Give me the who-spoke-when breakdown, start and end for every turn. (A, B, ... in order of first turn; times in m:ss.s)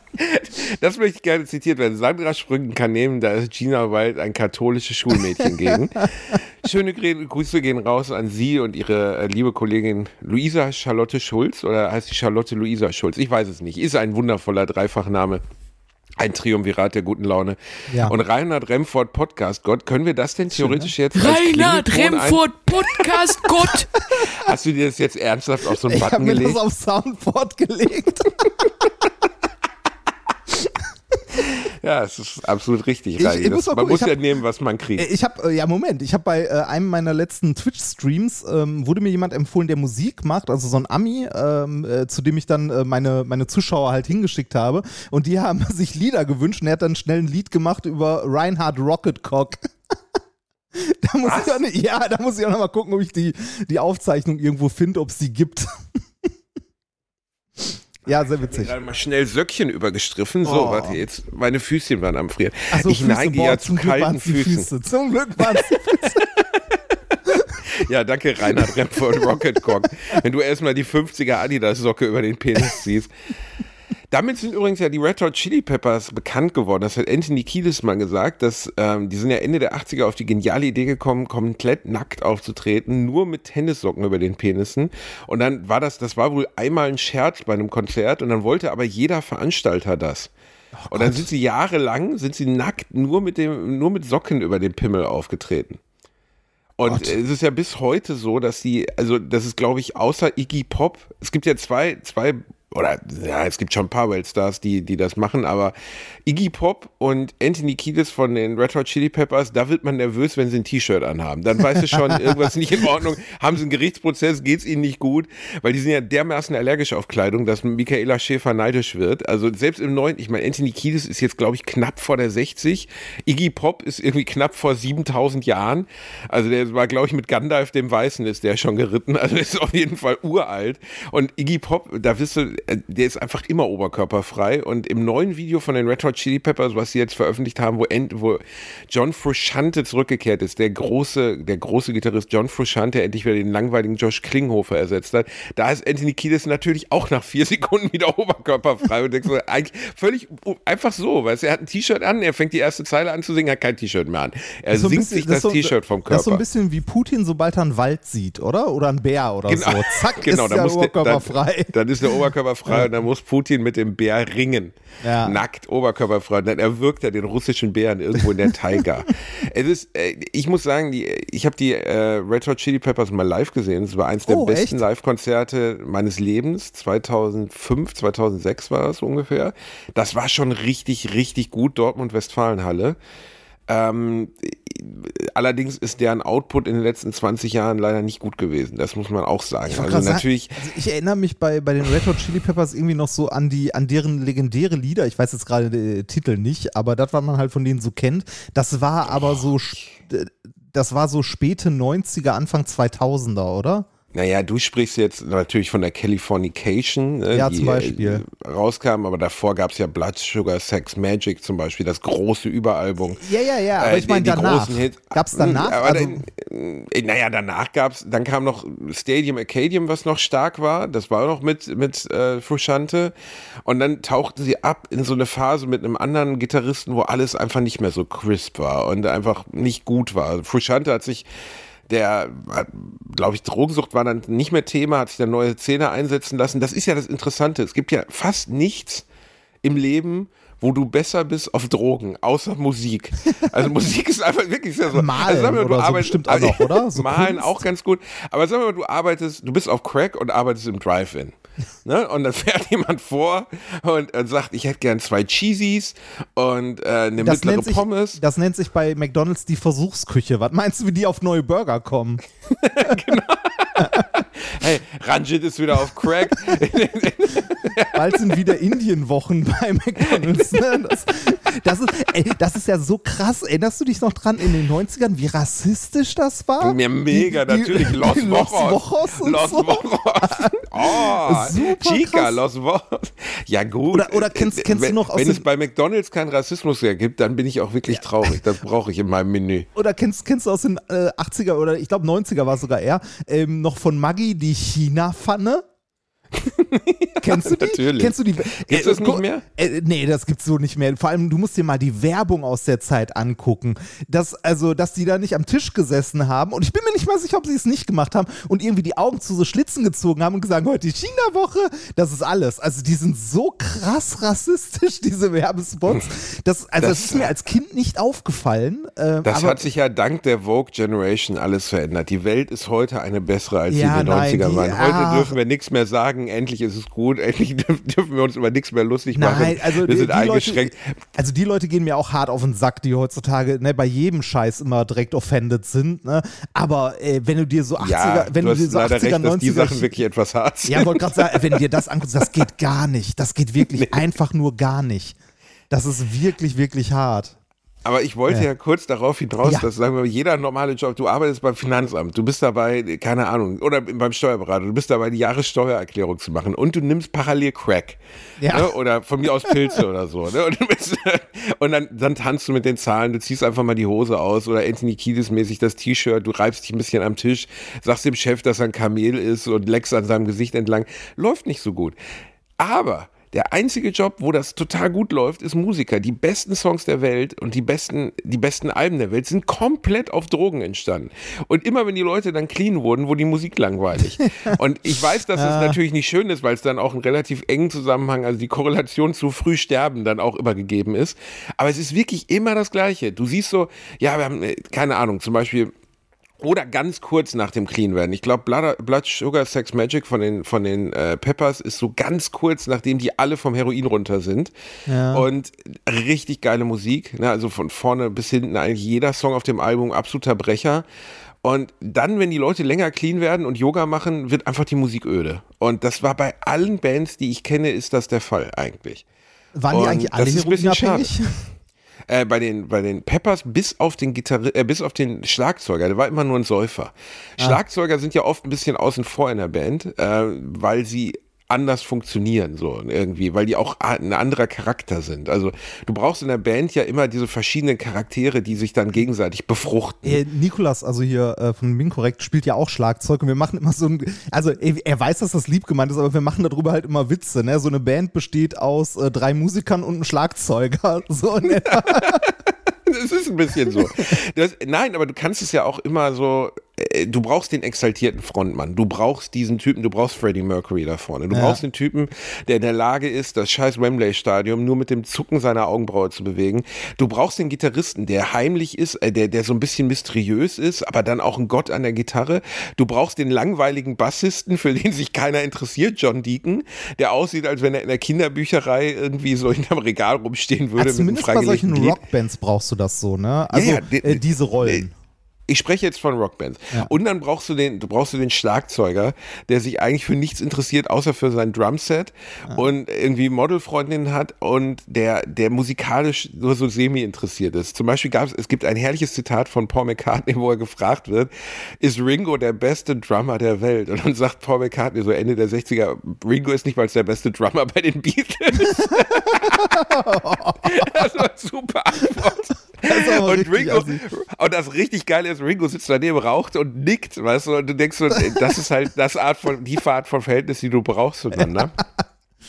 0:00.2-0:15.4 A
0:16.2-0:22.4 A
0:20.5-0:20.9 B
0:21.2-0:23.9 C
0:24.2-0:26.6 A
0:25.8-0:28.9 B
0:31.4-0:35.1 A
0:33.2-0:34.2 B
0:35.0-0:49.7 B
0:50.7-0:55.7 B
0:51.2-0:51.6 A
0:57.6-0:58.8 B
0:58.4-1:04.7 A
1:00.4-1:01.0 B
1:02.7-1:06.2 B
1:05.4-1:13.1 A
1:08.5-1:09.7 B
1:14.1-1:30.3 A
1:30.8-1:31.3 B
1:30.9-1:35.8 A
1:36.8-1:45.8 A
1:36.9-1:37.1 B
1:46.3-2:36.4 A
1:52.1-1:52.4 B
2:34.7-2:42.9 B
2:39.5-3:03.0 A
2:45.0-2:45.4 B
2:54.3-2:54.8 B
3:03.7-3:10.6 A
3:09.7-3:23.9 B
3:24.1-3:33.2 A
3:27.3-3:28.2 B
3:33.2-3:36.2 B
3:33.8-3:43.1 A
3:43.6-3:51.2 A
3:51.9-3:59.0 A
3:59.6-4:18.2 A
4:04.9-4:07.6 B
4:17.2-4:22.2 B
4:22.5-4:28.4 A
4:23.8-4:24.1 B
4:25.9-4:26.8 B
4:27.9-4:42.4 B
4:36.6-4:49.7 A
4:43.9-4:45.4 B
4:49.8-4:55.6 B
4:56.4-4:59.4 A
4:57.2-5:19.7 B
5:16.8-5:17.3 A
5:19.2-5:30.9 A
5:23.7-5:25.3 B
5:29.1-5:40.0 B
5:37.8-5:41.6 A
5:40.7-5:45.2 B
5:43.7-5:44.0 A
5:45.7-5:47.4 B
5:47.8-5:58.0 A
5:58.4-5:58.7 B
5:58.5-6:12.0 A
6:12.6-6:35.7 A
6:25.4-6:25.8 B
6:36.4-6:44.5 A
6:44.9-6:45.3 B
6:45.1-6:50.8 A
6:51.4-6:59.0 A
6:59.6-7:01.5 B
6:59.7-7:01.1 A
7:02.1-7:20.2 A
7:20.0-7:32.2 B
7:31.5-7:32.3 A
7:32.9-8:02.0 A
7:33.7-7:34.0 B
7:41.3-7:41.6 B
8:00.8-8:04.9 B
8:03.5-8:04.8 A
8:05.5-8:29.9 A
8:28.7-8:31.1 B
8:30.6-8:41.8 A
8:32.1-8:34.0 B
8:38.1-8:38.5 B
8:41.4-8:41.8 B